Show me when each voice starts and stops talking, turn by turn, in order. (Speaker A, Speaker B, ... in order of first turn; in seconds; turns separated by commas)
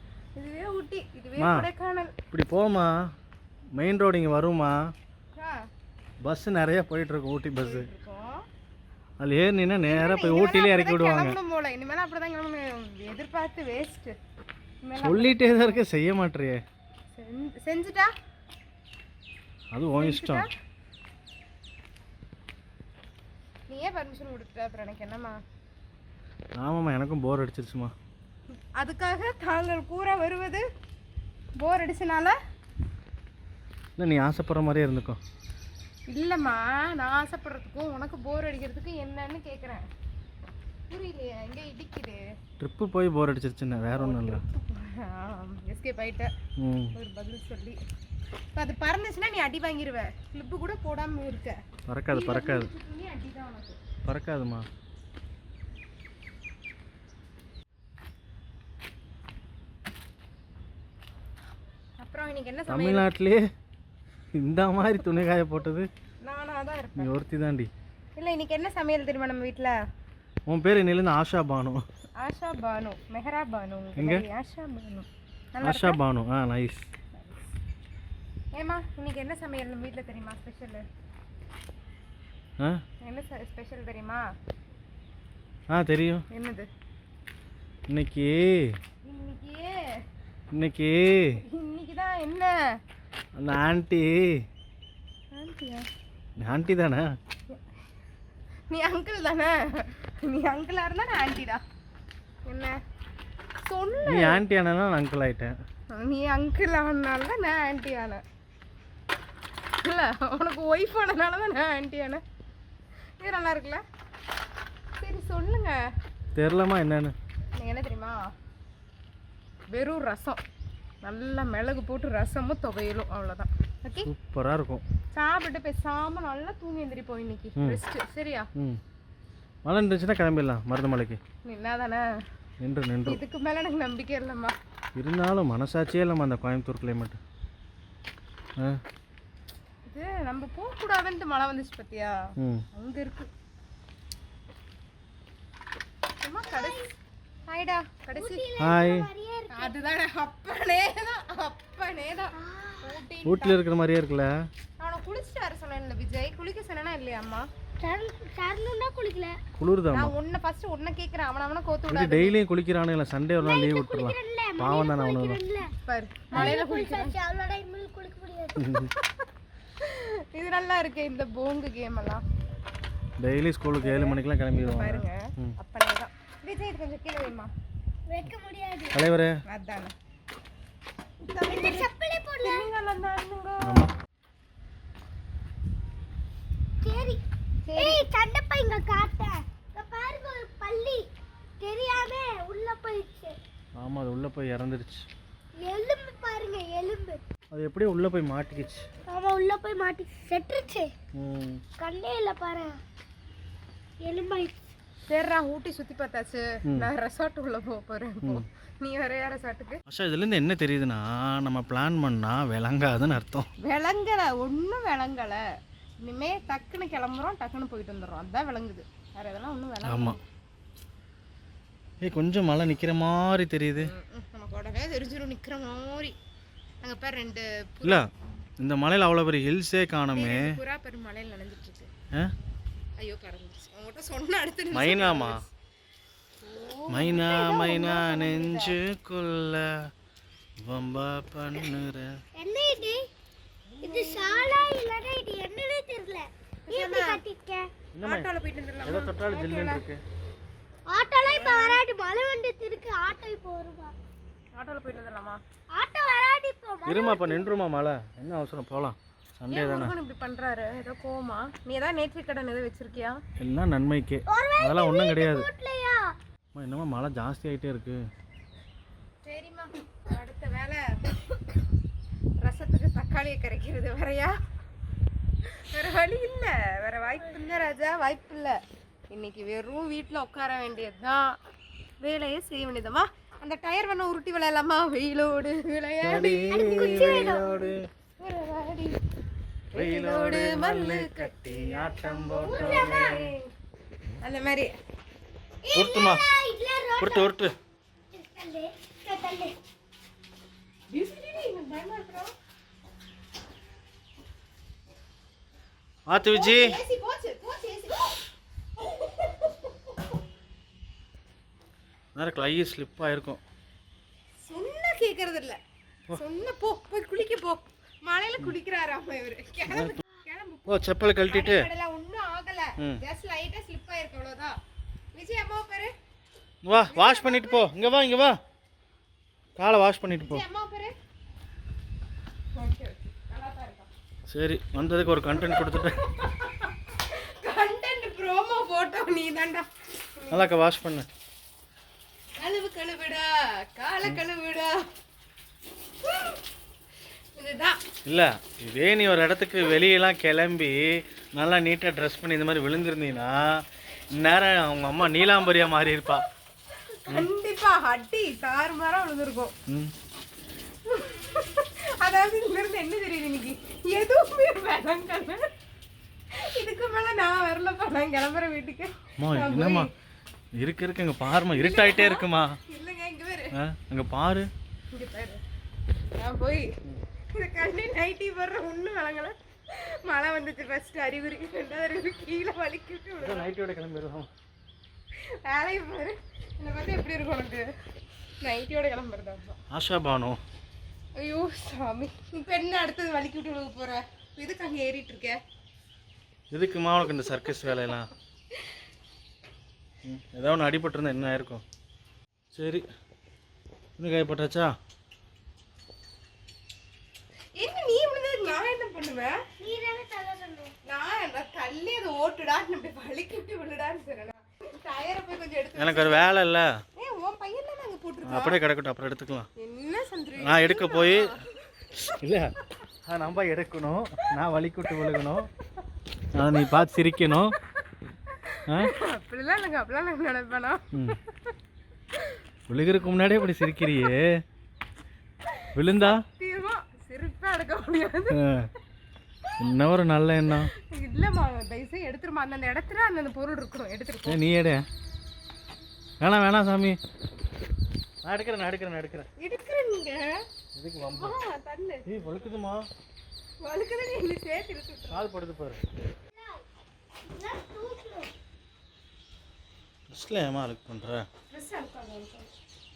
Speaker A: 0.3-2.1, Speaker B: 1.4-1.7, Speaker B: 2.3-3.1, Speaker B: 3.8-4.8, Speaker A: 5.3-5.6, Speaker B: 6.2-7.9, Speaker A: 7.6-8.4, Speaker B: 9.2-11.4, Speaker A: 9.9-14.1, Speaker A: 14.8-15.8, Speaker B: 15.0-16.6, Speaker A: 17.1-18.1, Speaker B: 19.7-20.4, Speaker A: 20.0-20.5, Speaker A: 23.7-25.4, Speaker B: 26.6-27.9, Speaker A: 28.8-30.6, Speaker A: 31.6-32.4, Speaker B: 34.0-35.2, Speaker A: 36.1-39.8, Speaker A: 40.9-42.2, Speaker B: 42.6-44.4, Speaker A: 43.9-46.3, Speaker B: 46.6-46.9, Speaker A: 46.9-47.8, Speaker A: 48.5-51.6, Speaker B: 51.9-52.7, Speaker A: 52.1-53.8, Speaker B: 54.0-54.7, Speaker A: 62.0-63.1, Speaker B: 62.7-63.4, Speaker B: 64.3-65.9, Speaker A: 66.2-67.1, Speaker B: 67.0-67.7, Speaker A: 68.2-69.8, Speaker B: 70.5-71.8, Speaker A: 72.2-76.0, Speaker B: 74.0-74.2, Speaker B: 75.6-76.9, Speaker A: 78.5-80.8, Speaker A: 83.0-84.2, Speaker B: 85.7-86.2, Speaker A: 86.3-86.7, Speaker B: 87.9-88.8, Speaker A: 89.0-89.8, Speaker B: 90.5-91.4, Speaker A: 91.4-92.5, Speaker B: 93.3-94.3, Speaker A: 95.3-95.9, Speaker B: 96.4-97.1, Speaker A: 98.7-101.6, Speaker A: 102.4-102.8, Speaker A: 103.6-104.4, Speaker B: 104.0-105.5, Speaker A: 105.9-108.2, Speaker A: 109.8-112.2, Speaker A: 113.2-113.8, Speaker A: 115.0-115.8, Speaker B: 116.3-117.1, Speaker A: 117.5-118.2, Speaker A: 119.7-120.4, Speaker A: 121.0-124.1, Speaker B: 124.0-124.8, Speaker A: 125.2-128.5, Speaker B: 129.6-131.2, Speaker A: 131.4-132.0, Speaker B: 132.6-133.2, Speaker A: 133.1-134.5, Speaker B: 134.9-137.2, Speaker A: 139.8-142.2, Speaker B: 142.4-142.7, Speaker A: 142.7-143.3, Speaker A: 146.2-146.9, Speaker C: 146.5-146.9, Speaker A: 147.5-148.4, Speaker C: 148.2-149.7, Speaker B: 148.6-149.1, Speaker A: 149.5-153.6, Speaker C: 152.4-152.9, Speaker B: 153.2-154.3, Speaker A: 154.8-157.5, Speaker C: 157.8-159.4, Speaker B: 159.6-160.1, Speaker A: 159.9-162.4, Speaker B: 161.9-165.4, Speaker C: 163.4-165.7, Speaker A: 165.8-167.2, Speaker C: 166.3-168.6, Speaker B: 168.6-168.9, Speaker A: 169.8-172.2, Speaker B: 173.2-175.6, Speaker A: 173.7-177.5, Speaker C: 178.1-179.0, Speaker B: 178.9-179.4, Speaker A: 179.5-179.9, Speaker A: 181.3-181.9, Speaker C: 181.4-182.7, Speaker A: 182.4-183.9, Speaker B: 183.6-183.9, Speaker C: 186.8-187.2, Speaker A: 187.7-188.1, Speaker C: 187.7-191.1, Speaker C: 191.6-193.4, Speaker B: 193.8-195.1, Speaker C: 195.6-197.2, Speaker B: 197.5-198.9, Speaker C: 199.1-200.9, Speaker B: 201.2-201.6, Speaker C: 201.8-202.8, Speaker C: 204.0-204.6, Speaker A: 205.1-209.8, Speaker B: 209.9-213.5, Speaker A: 213.6-215.4, Speaker A: 216.0-220.2, Speaker B: 219.8-220.2, Speaker B: 222.0-223.9, Speaker A: 223.8-226.2, Speaker A: 226.8-228.0, Speaker B: 228.6-230.6, Speaker A: 230.1-231.9, Speaker A: 233.0-235.5, Speaker B: 234.7-235.4, Speaker A: 236.4-238.8, Speaker B: 236.9-239.9, Speaker B: 240.6-242.1, Speaker C: 242.3-243.0, Speaker A: 243.7-244.7, Speaker C: 243.8-247.7, Speaker A: 246.7-247.2, Speaker B: 247.9-248.3, Speaker A: 248.0-249.8, Speaker B: 248.8-250.0, Speaker C: 250.9-253.9, Speaker A: 251.2-251.8, Speaker A: 254.5-255.4, Speaker C: 255.7-257.5, Speaker B: 256.9-259.9, Speaker A: 259.5-263.2, Speaker B: 263.4-265.5, Speaker C: 264.3-266.1, Speaker B: 266.5-268.0, Speaker A: 269.2-270.8, Speaker A: 272.4-274.4, Speaker A: 275.4-278.6, Speaker A: 279.1-281.4, Speaker A: 282.0-289.0, Speaker B: 286.0-287.8, Speaker C: 286.5-287.5, Speaker A: 289.7-293.5, Speaker B: 289.7-293.3, Speaker C: 292.5-292.8, Speaker A: 294.2-294.7, Speaker C: 295.6-297.3, Speaker B: 295.7-296.2, Speaker B: 297.0-297.5, Speaker C: 298.1-299.5, Speaker A: 300.9-302.3, Speaker B: 306.1-306.8, Speaker A: 306.2-308.2, Speaker A: 308.8-310.1, Speaker B: 312.1-313.4, Speaker A: 314.4-315.6, Speaker A: 316.1-324.6, Speaker B: 319.7-319.9, Speaker B: 320.7-321.7, Speaker A: 325.1-325.9, Speaker B: 326.6-328.4, Speaker A: 326.9-327.7, Speaker B: 329.6-330.4, Speaker A: 330.2-330.9, Speaker A: 332.5-333.9, Speaker B: 334.3-336.0, Speaker A: 335.4-340.5, Speaker B: 340.3-341.1, Speaker A: 342.4-344.9, Speaker A: 346.0-346.4, Speaker A: 347.3-347.8, Speaker B: 348.1-353.6, Speaker B: 354.2-356.2, Speaker A: 356.8-359.5, Speaker A: 360.8-365.5, Speaker A: 366.3-369.9, Speaker B: 369.2-369.9, Speaker B: 370.6-372.6, Speaker A: 371.4-373.5, Speaker B: 373.5-374.5, Speaker A: 374.9-375.4, Speaker A: 376.1-376.7, Speaker A: 377.3-383.5, Speaker B: 383.2-384.3, Speaker A: 385.4-387.7, Speaker A: 388.4-389.6, Speaker B: 389.7-390.4, Speaker A: 391.2-395.4, Speaker B: 396.5-398.1, Speaker A: 397.0-397.9, Speaker B: 400.0-401.6, Speaker B: 402.5-402.8, Speaker B: 404.0-404.7, Speaker A: 407.5-409.4, Speaker C: 409.6-410.7, Speaker A: 410.8-416.3, Speaker B: 415.8-416.7, Speaker A: 416.9-418.6, Speaker B: 418.2-419.5, Speaker A: 419.6-421.9, Speaker B: 420.4-421.3, Speaker B: 422.2-422.5, Speaker B: 423.1-425.5, Speaker A: 424.9-425.2, Speaker B: 426.3-427.5, Speaker A: 428.4-431.5, Speaker B: 432.7-434.3, Speaker B: 435.7-436.2, Speaker A: 435.9-438.4, Speaker B: 438.3-438.7, Speaker B: 439.6-440.7, Speaker A: 440.8-444.4, Speaker B: 444.3-444.8, Speaker B: 446.2-447.0, Speaker B: 448.2-449.3, Speaker A: 449.4-450.4, Speaker B: 450.7-451.3, Speaker A: 451.0-452.1, Speaker B: 452.1-452.9, Speaker A: 453.6-455.2, Speaker B: 455.1-455.8, Speaker C: 456.3-456.6, Speaker C: 457.3-458.3, Speaker B: 460.1-461.2, Speaker A: 461.5-462.5